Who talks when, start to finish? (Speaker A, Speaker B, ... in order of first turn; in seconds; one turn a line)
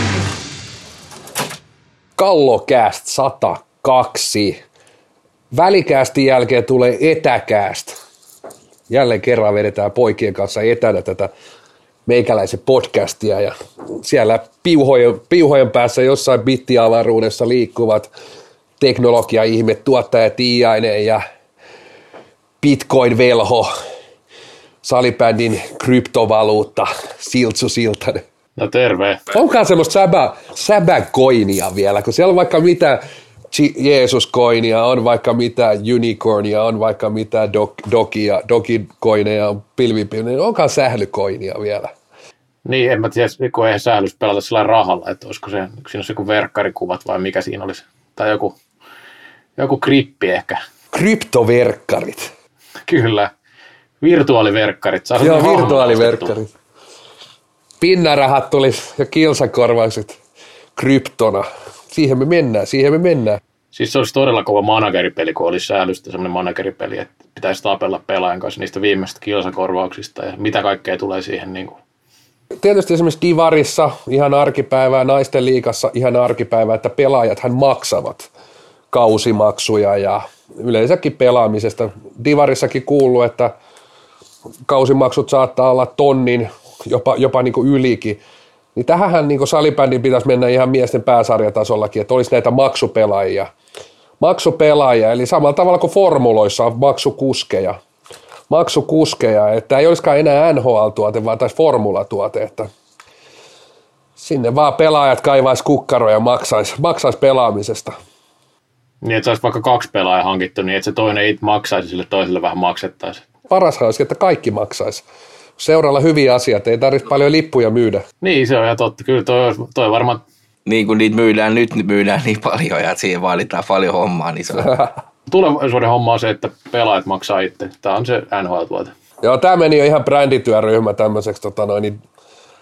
Speaker A: 2.2-4.6
Speaker A: 5.5-8.0
Speaker A: 8.9-11.3
Speaker A: 12.1-18.1
Speaker A: 18.8-21.2
Speaker A: 22.6-23.7
Speaker A: 24.8-28.2
Speaker B: 28.6-29.2
Speaker A: 29.3-41.9
Speaker B: 42.6-48.6
Speaker B: 49.6-50.6
Speaker A: 50.9-52.3
Speaker B: 52.9-53.3
Speaker B: 54.0-56.3
Speaker A: 55.2-56.5
Speaker A: 57.8-60.2
Speaker A: 60.8-63.4
Speaker B: 63.7-71.8
Speaker A: 72.6-78.3
Speaker A: 78.9-83.5
Speaker A: 84.7-88.2
Speaker A: 88.7-93.5
Speaker A: 94.2-97.8
Speaker A: 98.5-102.7
Speaker A: 104.2-108.0
Speaker B: 109.0-113.2
Speaker A: 113.5-115.0
Speaker A: 115.6-118.0
Speaker B: 118.2-120.2
Speaker C: 120.7-124.7
Speaker B: 125.3-128.9
Speaker A: 129.2-132.0